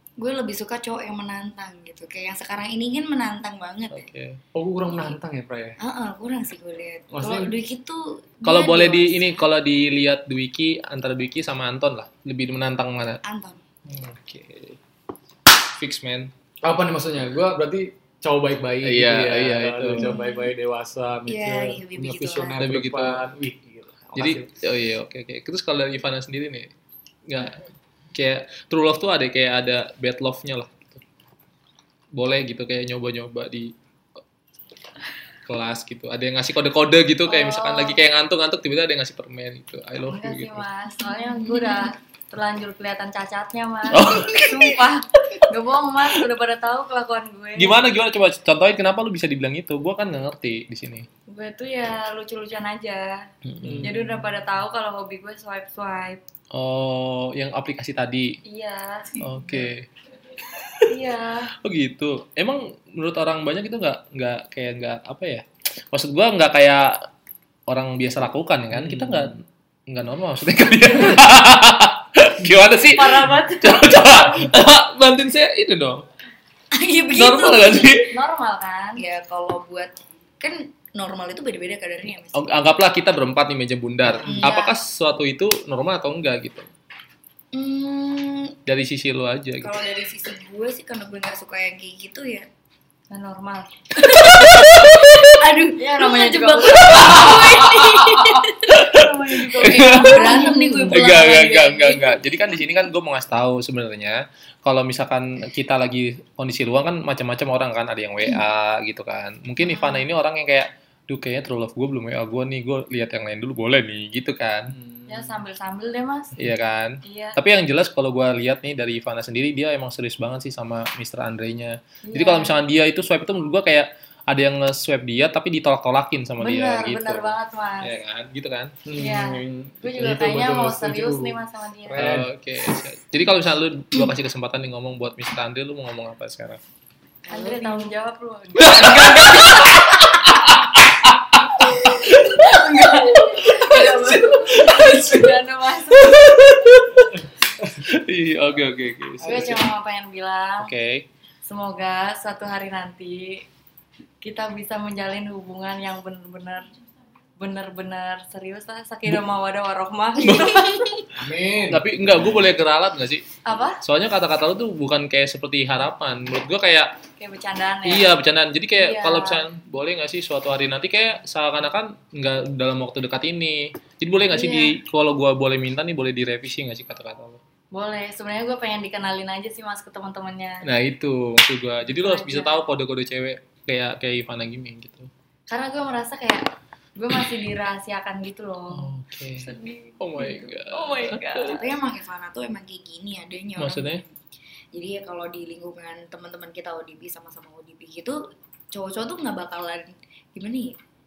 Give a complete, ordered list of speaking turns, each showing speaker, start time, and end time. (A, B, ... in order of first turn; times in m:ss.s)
0:00.2-0:04.0 A
0:03.9-0:04.4 B
0:04.5-0:05.8 C
0:04.9-0:05.1 A
0:05.8-0:09.4 A
0:07.1-0:07.5 C
0:08.4-0:13.2 B
0:13.2-0:13.6 A
0:13.8-0:14.8 B
0:15.7-0:16.3 B
0:16.6-0:24.5 C
0:18.8-0:20.1 B
0:20.0-0:20.5 A
0:21.2-0:22.6 A
0:22.6-0:23.3 B
0:24.2-0:26.7 B
0:27.3-0:27.6 B
0:28.1-0:31.0 B
0:32.1-0:33.7 B
0:35.4-0:40.6 B
0:37.3-0:38.0 D
0:40.1-0:47.8 D
0:41.2-0:41.9 A
0:43.9-0:44.8 B
0:47.6-0:51.1 B
0:51.3-0:53.2 D
0:53.4-0:54.0 B
0:53.6-0:53.9 C
0:53.8-0:56.2 D
0:56.5-0:58.4 B
0:58.4-0:59.4 D
0:59.2-0:59.9 B
1:00.5-1:00.9 B
1:00.9-1:01.5 D
1:01.6-1:07.0 B
1:07.7-1:16.0 B
1:08.8-1:09.3 C
1:12.8-1:14.5 D
1:16.7-1:18.0 A
1:17.1-1:18.1 B
1:18.1-1:19.0 D
1:19.0-1:22.5 A
1:22.3-1:26.7 B
1:24.2-1:24.7 A
1:24.2-1:24.6 D
1:27.5-1:28.6 A
1:28.6-1:29.8 B
1:29.6-1:32.5 A
1:33.1-1:33.7 D
1:34.0-1:38.8 A
1:34.3-1:35.0 B
1:35.8-1:37.7 D
1:36.9-1:54.7 B
1:38.7-1:41.2 D
1:39.6-1:42.6 A
1:54.7-1:55.4 C
1:55.1-1:56.4 D
1:56.4-2:08.7 B
1:57.0-1:57.4 D
2:02.0-2:02.6 D
2:06.4-2:07.9 D
2:08.8-2:12.3 C
2:09.0-2:12.0 D
2:11.9-2:16.6 B
2:17.3-2:19.7 D
2:17.3-2:17.9 A
2:18.6-2:25.3 B
2:21.6-2:26.3 D
2:26.0-2:27.2 B
2:27.8-2:29.6 B
2:29.2-2:30.7 D
2:29.2-2:29.6 C
2:30.6-2:31.0 B
2:31.4-2:33.4 D
2:34.2-2:36.7 D
2:37.4-2:41.0 D
2:40.2-2:40.6 B
2:41.1-2:42.4 C
2:41.7-2:43.2 B
2:43.4-2:43.8 D
2:43.8-2:47.0 B
2:47.2-2:48.1 D
2:47.8-2:57.4 B
2:48.8-2:49.4 D
2:54.3-2:54.7 D
2:57.7-3:00.6 D
3:00.6-3:05.1 B
3:01.9-3:02.6 D
3:05.5-3:11.6 D
3:08.7-3:09.5 B
3:10.0-3:11.6 B
3:11.4-3:14.1 A
3:13.6-3:14.0 B
3:14.7-3:18.2 A
3:18.7-3:20.8 A